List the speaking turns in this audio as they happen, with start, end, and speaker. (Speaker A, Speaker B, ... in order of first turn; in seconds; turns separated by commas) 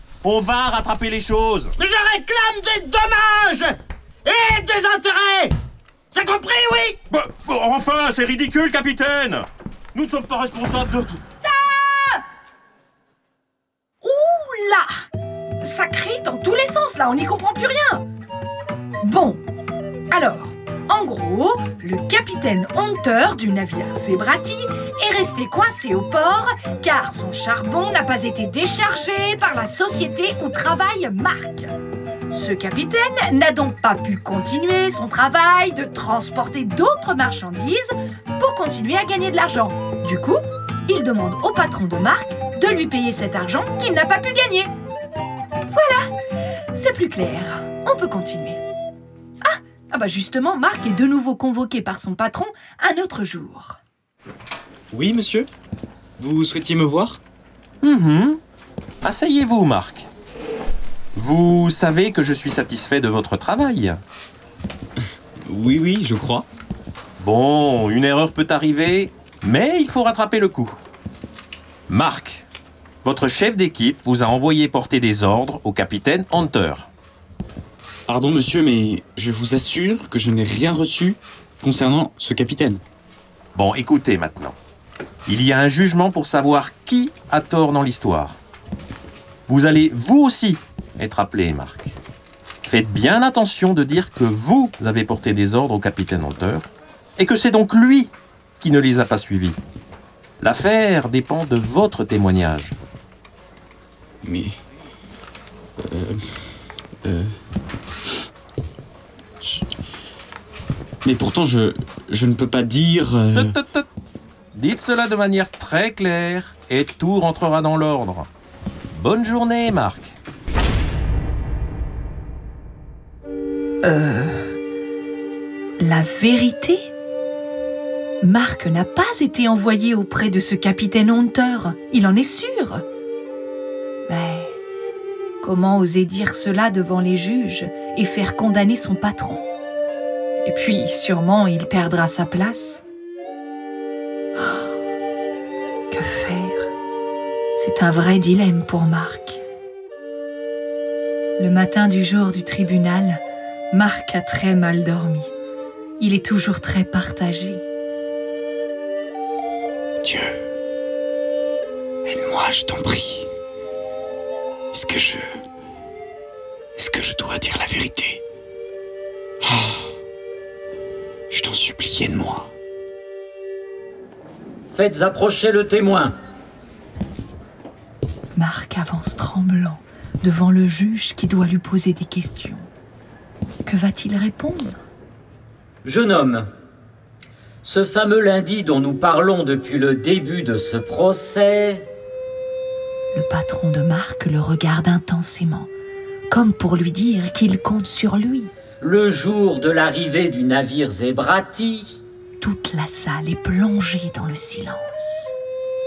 Speaker A: 0.2-1.7, Speaker B: 1.8-5.5, Speaker B: 6.1-7.0, Speaker A: 7.1-11.2, Speaker C: 11.6-12.2, Speaker C: 14.0-14.9, Speaker C: 15.6-18.0, Speaker C: 19.0-19.4, Speaker C: 20.1-31.7, Speaker C: 32.3-44.7, Speaker C: 45.7-46.1, Speaker C: 46.7-48.6, Speaker C: 49.4-53.8, Speaker D: 54.9-55.5, Speaker D: 56.2-57.2, Speaker A: 57.8-58.4, Speaker A: 59.0-60.1, Speaker A: 61.1-64.0, Speaker D: 65.5-66.5, Speaker A: 67.2-70.8, Speaker A: 71.9-72.5, Speaker A: 73.0-76.9, Speaker D: 78.1-82.8, Speaker A: 83.5-84.6, Speaker A: 85.3-88.4, Speaker A: 89.5-92.0, Speaker A: 92.6-99.6, Speaker A: 100.4-102.8, Speaker D: 104.2-104.6, Speaker D: 105.8-106.2, Speaker D: 107.0-107.3, Speaker D: 111.0-113.6, Speaker A: 113.3-113.9, Speaker A: 114.5-118.3, Speaker A: 118.9-120.1, Speaker C: 123.8-124.5, Speaker C: 125.8-126.9, Speaker C: 128.2-132.8, Speaker C: 134.1-134.6, Speaker C: 135.4-139.4, Speaker C: 140.4-142.8, Speaker C: 144.4-144.7, Speaker C: 145.9-146.7, Speaker C: 147.6-149.4, Speaker C: 151.4-153.2, Speaker C: 153.7-155.3, Speaker C: 156.0-157.6, Speaker D: 160.0-160.4, Speaker D: 162.1-163.3, Speaker D: 164.7-165.3, Speaker D: 166.8-168.2, Speaker D: 169.4-169.8, Speaker D: 171.3-172.5, Speaker E: 174.7-176.1, Speaker C: 178.3-182.6, Speaker C: 183.6-184.8, Speaker E: 185.8-186.5, Speaker E: 187.6-191.9, Speaker C: 193.1-195.7, Speaker C: 196.3-198.5, Speaker E: 198.8-201.9, Speaker C: 202.4-205.3